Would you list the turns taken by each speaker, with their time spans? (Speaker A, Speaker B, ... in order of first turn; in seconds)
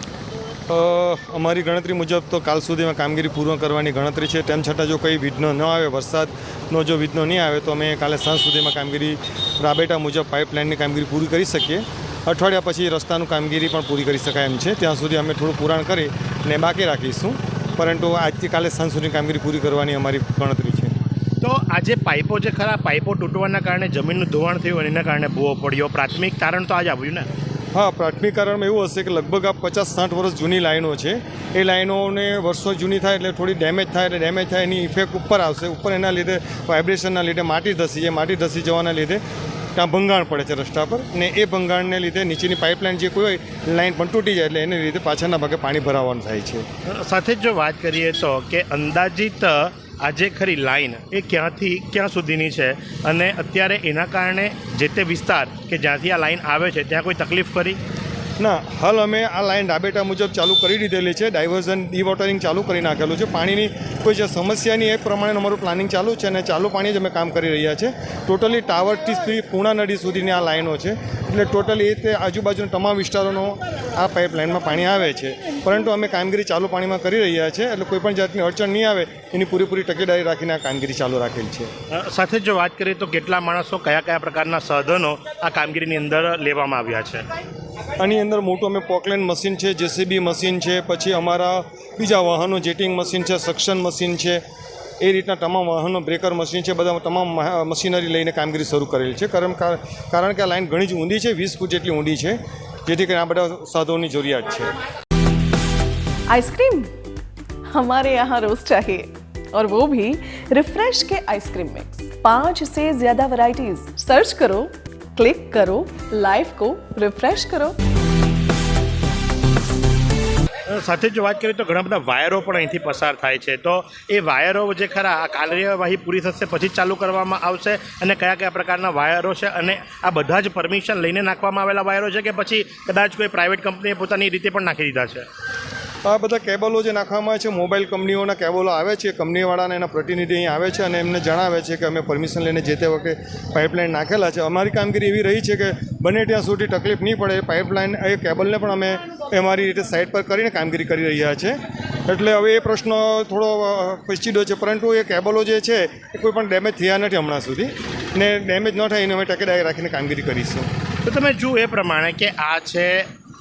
Speaker A: 0.7-20.9, 27.7-39.2, 39.8-46.6, 58.4-81.7, 88.0-94.4, 95.0-104.7, 136.1-151.6, 152.1-160.7
Speaker B: 21.4-27.3, 46.9-57.8, 81.9-87.2, 120.7-135.3, 161.0-163.1
Speaker C: 106.3-106.9, 107.7-117.8